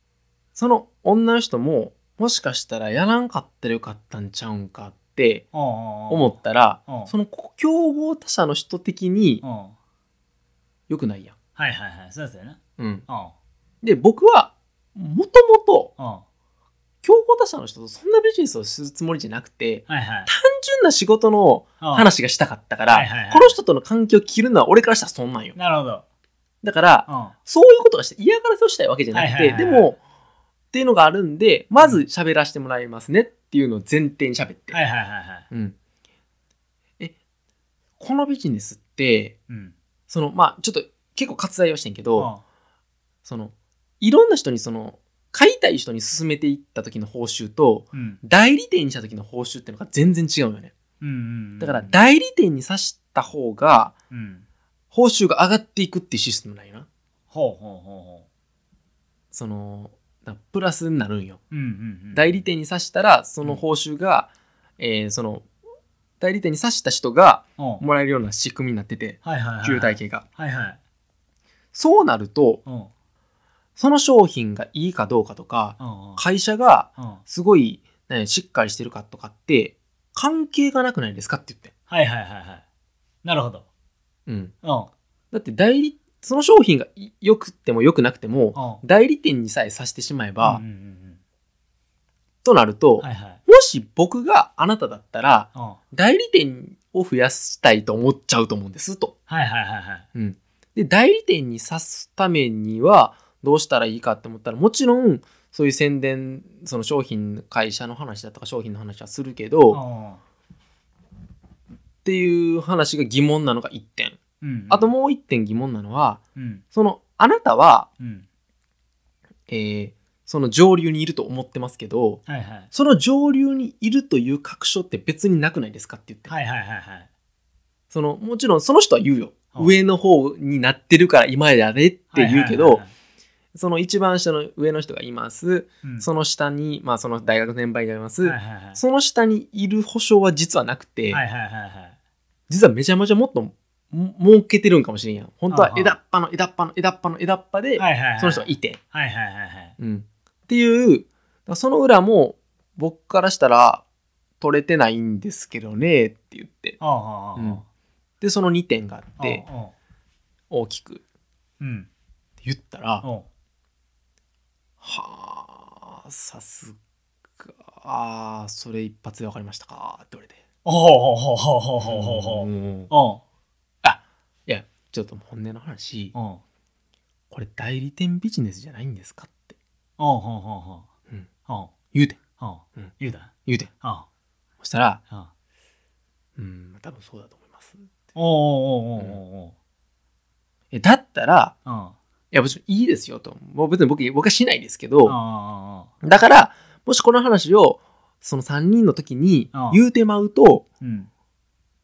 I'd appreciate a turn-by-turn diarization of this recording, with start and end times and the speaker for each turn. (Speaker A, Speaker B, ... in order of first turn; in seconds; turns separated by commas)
Speaker A: 0.5-5.5, Speaker B: 5.5-6.3, Speaker A: 6.1-9.4, Speaker B: 6.9-7.1, Speaker B: 9.4-9.8, Speaker A: 10.9-11.4, Speaker B: 11.6-13.3, Speaker A: 12.8-13.0, Speaker A: 13.8-15.9, Speaker B: 16.0-16.2, Speaker A: 17.0-25.6, Speaker B: 19.9-20.3, Speaker B: 21.8-22.1, Speaker B: 22.9-23.6, Speaker B: 25.6-26.0, Speaker A: 26.6-30.0, Speaker B: 27.1-27.4, Speaker B: 29.1-29.9, Speaker A: 30.7-34.8, Speaker B: 34.7-35.5, Speaker A: 38.0-39.4, Speaker B: 39.5-39.7, Speaker A: 40.1-42.3, Speaker B: 42.2-42.4, Speaker A: 43.2-50.7, Speaker B: 47.9-48.2, Speaker B: 51.0-52.0, Speaker A: 51.6-53.9, Speaker B: 54.1-54.5, Speaker A: 54.9-56.9, Speaker B: 57.3-58.2, Speaker A: 59.3-61.4, Speaker B: 61.5-62.4, Speaker A: 62.1-65.5, Speaker A: 66.2-70.2, Speaker B: 67.6-67.8, Speaker B: 69.2-70.8, Speaker A: 71.7-72.6, Speaker B: 72.7-72.9, Speaker A: 73.8-81.7, Speaker B: 75.8-76.2, Speaker B: 81.9-82.6, Speaker B: 83.2-83.6, Speaker A: 84.3-84.5, Speaker B: 84.6-84.9, Speaker A: 85.3-90.6, Speaker B: 88.5-88.8, Speaker B: 90.4-91.2, Speaker A: 92.4-99.1, Speaker B: 93.0-93.4, Speaker B: 99.3-100.1, Speaker A: 100.1-109.8, Speaker B: 109.7-110.2, Speaker A: 112.0-114.2, Speaker B: 114.4-114.9, Speaker A: 114.7-116.2, Speaker B: 116.4-116.6, Speaker A: 116.7-117.9, Speaker B: 118.0-118.2, Speaker A: 119.5-126.3, Speaker B: 122.3-122.7, Speaker B: 126.3-127.1, Speaker A: 127.9-132.8, Speaker B: 132.1-132.9, Speaker A: 133.5-141.2, Speaker B: 138.2-138.8, Speaker B: 141.1-142.0, Speaker A: 142.5-148.8, Speaker B: 145.5-146.0, Speaker B: 147.8-149.8, Speaker A: 149.8-153.8, Speaker A: 154.4-156.8, Speaker B: 156.8-157.6, Speaker A: 157.4-157.6, Speaker A: 158.2-159.4, Speaker B: 159.2-159.7, Speaker A: 160.5-161.0, Speaker B: 161.6-161.9, Speaker A: 162.4-163.1, Speaker A: 164.8-166.8, Speaker A: 167.4-170.4, Speaker B: 170.6-173.2, Speaker A: 171.8-172.9, Speaker A: 173.8-176.1, Speaker B: 176.1-176.4, Speaker A: 177.3-179.6, Speaker B: 180.0-180.9, Speaker B: 181.5-181.7, Speaker A: 181.9-182.2, Speaker B: 182.4-184.1, Speaker A: 183.4-183.7, Speaker A: 184.6-185.0, Speaker A: 186.4-187.9, Speaker B: 188.2-189.5, Speaker A: 190.7-191.5, Speaker B: 191.7-192.0, Speaker A: 192.3-195.2, Speaker B: 195.0-195.9, Speaker A: 196.0-200.6, Speaker B: 199.5-199.8, Speaker B: 200.8-201.1